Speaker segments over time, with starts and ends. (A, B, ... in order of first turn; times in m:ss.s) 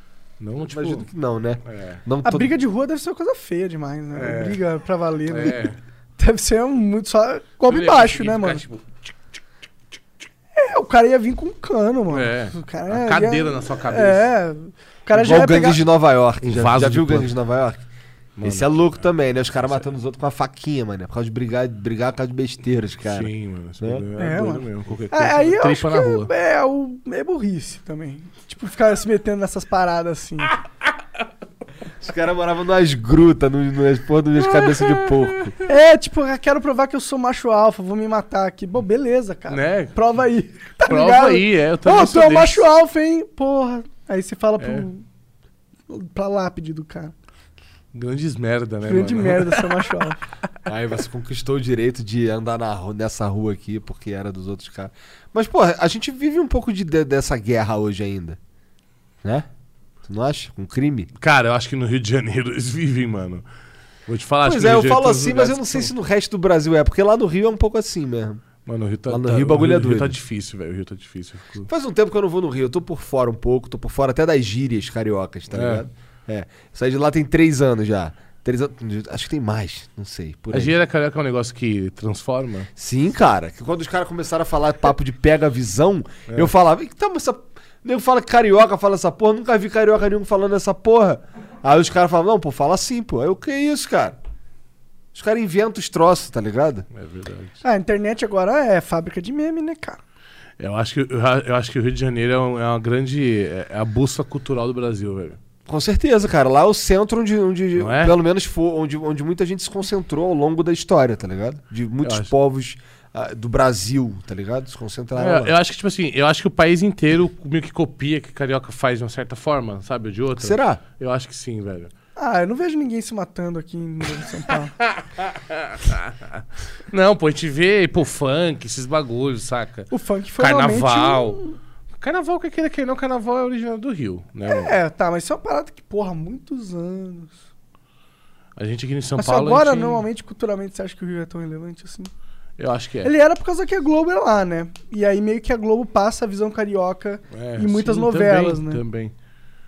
0:00.4-0:01.0 A
0:00.7-0:02.5 B
0:01.7-0:02.0 A
0:02.2-0:08.6 C
0:04.2-0:04.6 A
0:05.3-0:05.8 A
0:07.7-0:09.1 A
0:10.5-0:15.8 C
0:12.1-0:14.3 A
0:15.1-0:17.8 B
0:16.4-0:17.3 A
0:18.4-0:19.0 A
0:18.4-0:24.0 B
0:23.0-0:26.3 A
0:24.2-0:30.5 C
0:32.0-0:35.5 B
0:34.4-0:35.5 A
0:35.6-0:45.0 C
0:39.5-0:40.0 A
0:40.8-0:42.6 A
0:44.6-0:44.9 A
0:45.9-0:47.1 C
0:47.9-0:49.9 A
0:48.8-0:50.2 C
0:50.6-0:58.4 B
1:00.0-1:01.1 B
1:01.2-1:03.4 A
1:04.1-1:05.9 A
1:04.4-1:08.4 B
1:08.6-1:11.7 A
1:09.1-1:10.2 B
1:11.7-1:20.7 B
1:15.5-1:15.8 A
1:20.5-1:22.7 A
1:22.8-1:34.2 B
1:35.1-1:36.8 B
1:36.9-1:37.6 A
1:37.6-1:40.0 C
1:40.6-1:45.4 A
1:45.7-1:55.6 B
1:47.8-1:48.1 A
1:52.0-1:52.3 A
1:55.2-2:01.9 A
2:00.4-2:00.8 B
2:02.2-2:04.7 C
2:04.4-2:11.4 A
2:09.9-2:11.6 C
2:12.0-2:14.8 A
2:14.4-2:17.3 C
2:18.6-2:20.0 A
2:19.2-2:22.1 C
2:22.6-2:23.1 A
2:23.0-2:28.8 C
2:27.3-2:29.1 A